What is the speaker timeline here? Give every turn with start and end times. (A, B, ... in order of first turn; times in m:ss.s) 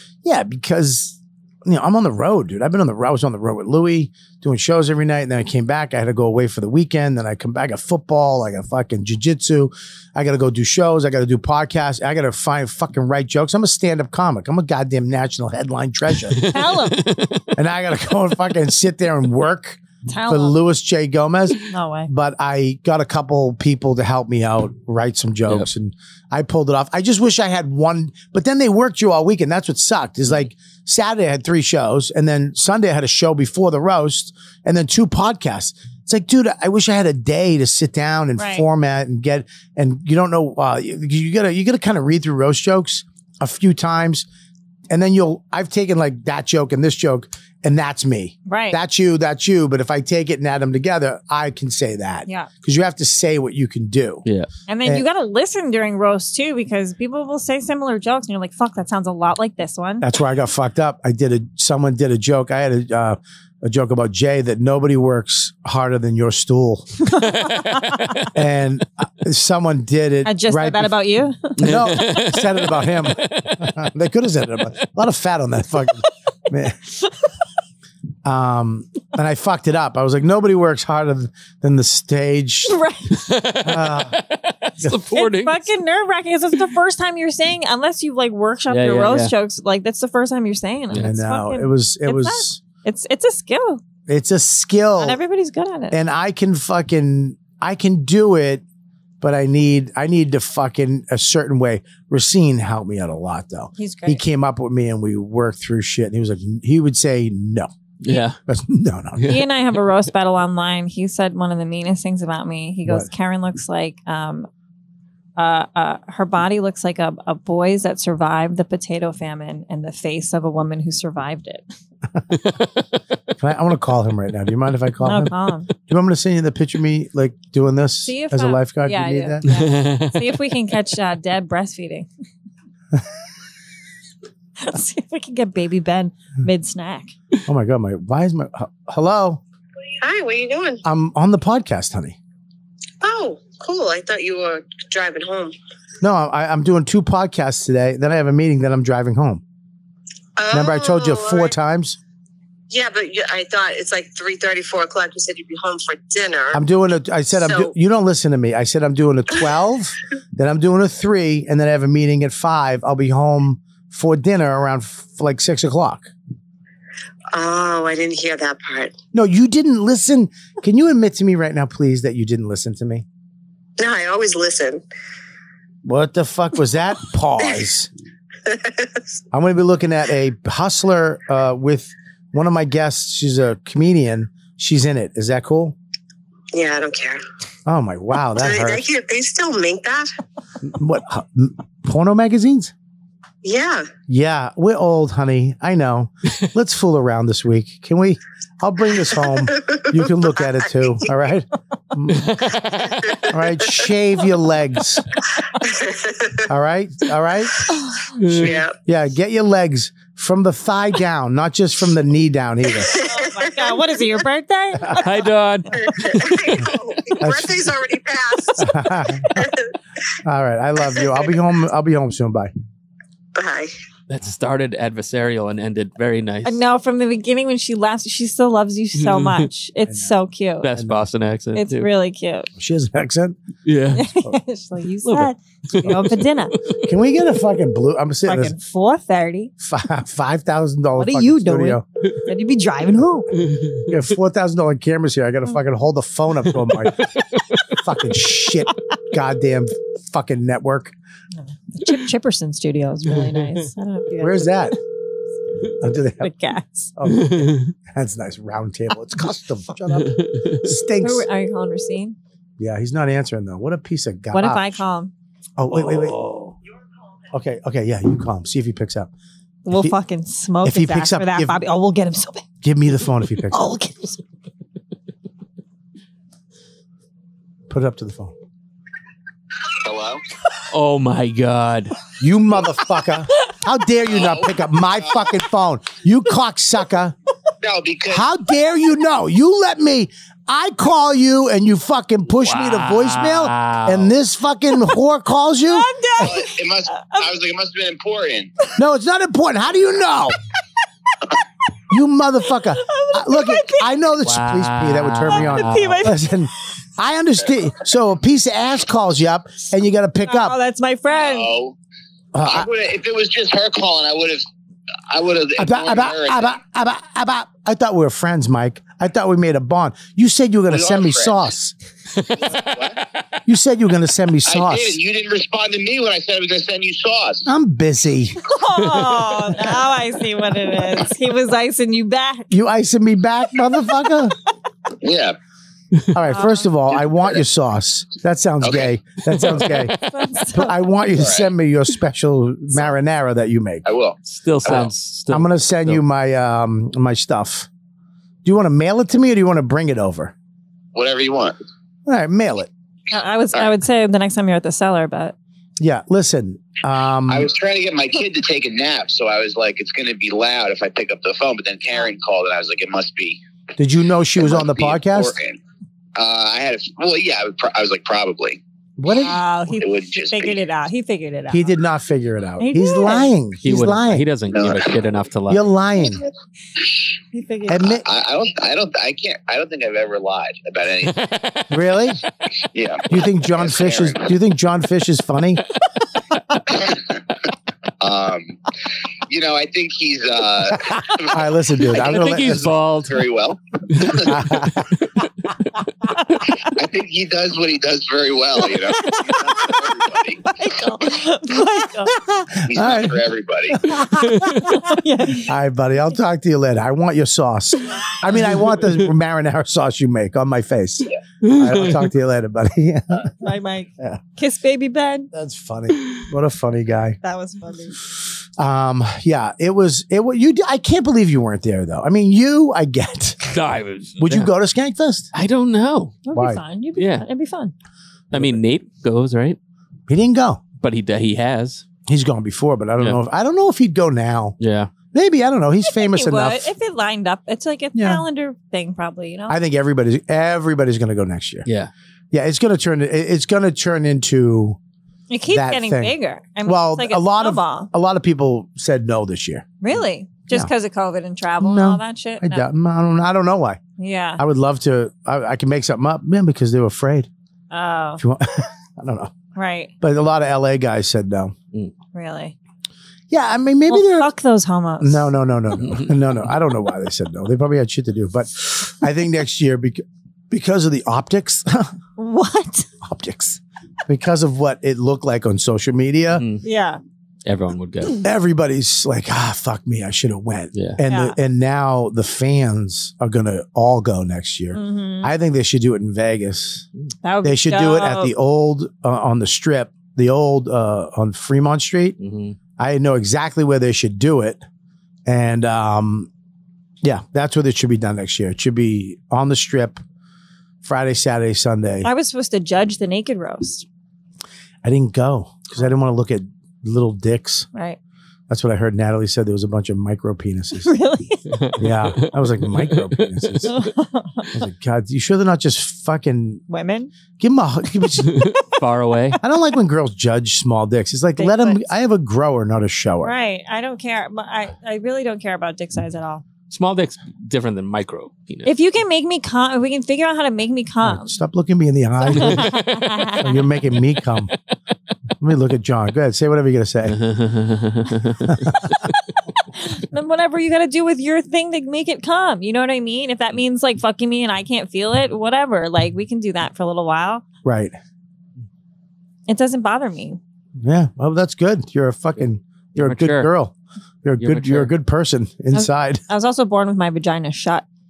0:00.2-0:16.5 A
0:16.3-0:17.5 B
0:16.5-0:17.1 C
0:17.5-0:44.2 A
0:20.1-0:20.6 C
0:21.7-0:22.1 C
0:38.4-0:38.6 C
0:44.9-0:54.2 A
0:48.5-0:48.8 C
0:54.7-1:00.0 C
1:00.0-1:06.9 A
1:07.1-1:08.1 C
1:07.2-1:08.3 B
1:08.3-1:10.9 A
1:10.2-1:12.0 C
1:11.6-1:16.8 A
1:11.6-1:13.7 B
1:18.2-1:22.8 A
1:22.7-1:23.2 C
1:23.1-1:25.7 B
1:23.6-1:24.2 A
1:25.1-1:33.8 C
1:28.7-1:29.3 B
1:30.9-1:32.6 A
1:34.1-1:35.2 A
1:35.0-1:36.0 C
1:35.9-1:38.6 A
1:39.2-1:47.7 A
1:43.8-1:44.2 C
1:48.0-1:48.4 B
1:48.5-1:49.3 A
1:49.2-1:49.4 B
1:49.2-1:54.5 C
1:55.4-2:01.7 C
2:03.4-2:09.4 A
2:05.0-2:05.7 C
2:08.0-2:12.1 C
2:09.4-2:10.2 B
2:14.6-2:17.1 C
2:17.4-2:19.4 A
2:20.0-2:20.8 D
2:20.8-2:22.2 A
2:23.0-2:25.5 D
2:26.0-2:29.4 A
2:30.4-2:31.5 D
2:30.5-2:32.0 A
2:32.7-2:36.6 D
2:36.5-2:46.1 A
2:37.3-2:37.7 D
2:47.3-2:49.0 D
2:49.1-2:53.0 A
2:53.8-2:54.8 D
2:55.8-2:57.9 A
2:58.4-2:59.0 D
2:59.3-3:05.8 A
3:06.5-3:07.2 D
3:07.6-3:08.8 A
3:08.3-3:10.1 D
3:10.6-3:12.7 A
3:13.4-3:13.9 D
3:14.1-3:22.3 A
3:19.4-3:21.1 D
3:22.1-3:23.3 B
3:23.2-3:25.0 A
3:25.6-3:26.5 D
3:26.5-3:27.6 A
3:28.1-3:28.6 B
3:28.3-3:28.7 D
3:28.8-3:33.0 A
3:32.8-3:33.6 D
3:32.9-3:35.1 C
3:35.0-3:36.4 B
3:35.7-3:38.7 D
3:37.2-3:37.7 A
3:38.6-3:39.5 A
3:39.3-3:39.7 D
3:40.2-3:42.5 A
3:40.9-3:41.2 D
3:43.3-3:43.7 D
3:44.1-3:46.6 B
3:46.4-3:50.7 C
3:49.0-3:49.4 B
3:50.6-3:51.9 B
3:50.8-3:51.0 A
3:51.6-3:52.5 C
3:52.6-3:53.4 A
3:53.6-3:54.1 B
3:54.0-3:56.6 C
3:55.0-3:56.2 B
3:56.8-3:58.6 A
3:58.2-3:59.5 C
3:59.6-4:01.8 A
4:01.0-4:03.3 C
4:03.3-4:03.9 B
4:03.9-4:07.1 A
4:06.6-4:07.6 B
4:07.7-4:10.9 A
4:11.3-4:14.7 C
4:13.1-4:13.5 B
4:14.2-4:14.8 A
4:15.8-4:16.3 A
4:16.2-4:16.9 C
4:17.0-4:21.2 A
4:17.1-4:17.7 B
4:19.9-4:20.6 B
4:21.0-4:22.2 C
4:22.6-4:24.8 A
4:24.3-4:25.1 C
4:25.6-4:26.2 A
4:25.7-4:26.5 B
4:27.3-4:29.1 A
4:29.6-4:32.4 C
4:30.6-4:31.6 A
4:32.6-4:33.6 A
4:33.5-4:34.2 C
4:37.7-4:38.3 A
4:39.8-4:40.2 E
4:40.7-4:42.0 B
4:42.2-4:47.2 A
4:44.1-4:45.3 E
4:47.6-4:48.3 E
4:48.1-4:55.9 A
4:52.4-4:54.1 B
4:55.7-4:57.3 C
4:56.2-4:58.5 E
4:58.8-5:00.4 A
5:01.9-5:10.6 A
5:02.8-5:04.0 C
5:04.2-5:06.1 B
5:05.3-5:06.2 C
5:10.2-5:11.5 C
5:11.1-5:11.8 E
5:12.3-5:12.7 A
5:12.4-5:14.4 E
5:15.1-5:16.5 E
5:15.6-5:21.7 A
5:20.7-5:21.4 E
5:22.2-5:22.8 B
5:22.4-5:23.0 E
5:23.4-5:25.0 A
5:24.4-5:27.4 E
5:27.4-5:28.4 A
5:28.4-5:32.5 C
5:32.5-5:34.3 A
5:35.0-5:35.4 E
5:36.1-5:39.9 A
5:36.3-5:36.7 C
5:37.0-5:37.4 E
5:38.6-5:38.9 E
5:39.3-5:40.0 B
5:40.0-5:40.8 C
5:40.5-5:43.8 A
5:41.1-5:41.5 E
5:43.8-5:44.9 E
5:44.2-5:46.0 B
5:45.3-5:47.7 A
5:48.4-5:50.3 A
5:50.9-5:51.6 E
5:52.0-5:52.7 A
5:53.1-5:55.3 C
5:55.8-5:57.5 A
5:57.3-6:03.4 E
6:03.8-6:05.3 A
6:04.4-6:05.6 E
6:06.2-6:08.6 E
6:09.0-6:09.4 A
6:09.1-6:11.7 C
6:09.8-6:10.6 E
6:11.5-6:14.3 A
6:12.6-6:13.3 C
6:13.6-6:15.6 B
6:14.5-6:15.0 E
6:15.5-6:16.2 A
6:17.3-6:18.0 C
6:17.7-6:18.0 A
6:17.9-6:21.2 E
6:21.0-6:21.8 B
6:21.7-6:22.2 A
6:22.7-6:24.3 E
6:23.1-6:25.6 A
6:28.0-6:28.6 E
6:29.3-6:34.3 E
6:31.2-6:32.6 A
6:32.0-6:33.2 B
6:34.0-6:34.7 B
6:34.2-6:34.9 A
6:36.8-6:40.5 E
6:39.0-6:39.8 C
6:40.4-6:42.2 C
6:42.7-6:43.8 E
6:42.7-6:44.7 A
6:44.2-6:44.7 B
6:44.6-6:45.5 C
6:45.4-6:53.3 A
6:51.4-6:52.0 B
6:53.4-6:55.3 C
6:55.3-6:57.2 A
6:57.2-6:58.0 C
6:58.6-7:03.5 A
7:03.5-7:04.5 B
7:04.2-7:05.3 A
7:05.3-7:06.2 B
7:06.2-7:07.7 C
7:06.3-7:06.6 A
7:07.0-7:07.2 B
7:08.3-7:09.6 B
7:08.3-7:08.6 A
7:10.1-7:10.6 A
7:10.8-7:11.8 B
7:12.0-7:14.6 A
7:14.6-7:14.9 B
7:15.1-7:16.7 A
7:15.8-7:19.6 C
7:17.9-7:18.2 A
7:19.5-7:21.7 A
7:21.6-7:21.9 B
7:22.3-7:24.8 A
7:25.3-7:27.9 C
7:25.5-7:29.8 A
7:29.8-7:32.7 C
7:31.6-7:33.8 A
7:34.0-7:34.4 C
7:34.4-7:37.3 A
7:37.7-7:38.2 C
7:38.2-7:39.3 A
7:39.5-7:39.9 C
7:40.0-7:41.5 A
7:42.1-7:42.6 C
7:43.3-7:44.3 A
7:43.9-7:45.3 C
7:45.0-7:52.0 A
7:45.8-7:46.4 B
7:52.2-7:52.9 C
7:53.0-7:56.4 A
7:56.3-7:56.6 B
7:56.6-7:57.0 C
7:57.4-7:58.2 B
7:58.2-8:06.8 A
8:00.7-8:01.0 B
8:01.1-8:01.4 C
8:04.7-8:05.3 C
8:07.2-8:08.3 C
8:07.4-8:12.2 A
8:12.2-8:12.6 B
8:12.8-8:14.6 A
8:15.2-8:16.3 A
8:17.0-8:20.0 A
8:20.8-8:22.1 A
8:22.0-8:23.8 C
8:24.8-8:27.7 A
8:27.7-8:28.0 C
8:28.5-8:30.9 A
8:30.8-8:31.4 C
8:31.5-8:33.8 B
8:31.8-8:33.8 A
8:33.7-8:34.5 C
8:34.5-8:36.6 A
8:36.7-8:37.1 C
8:37.4-8:38.5 A
8:38.2-8:39.4 B
8:39.4-8:43.3 A
8:41.4-8:41.9 C
8:43.2-8:46.4 C
8:46.7-8:48.7 B
8:48.6-8:51.3 C
8:51.0-8:52.8 A
8:52.2-8:53.6 C
8:52.3-8:53.4 B
8:53.4-8:54.5 A
8:55.4-8:57.2 A
8:57.0-8:58.6 B
8:58.5-8:58.7 A
8:59.7-9:07.4 C
9:07.6-9:08.0 A
9:09.5-9:10.4 C
9:10.8-9:16.2 A
9:13.0-9:13.5 B
9:14.4-9:14.9 B
9:15.7-9:17.8 C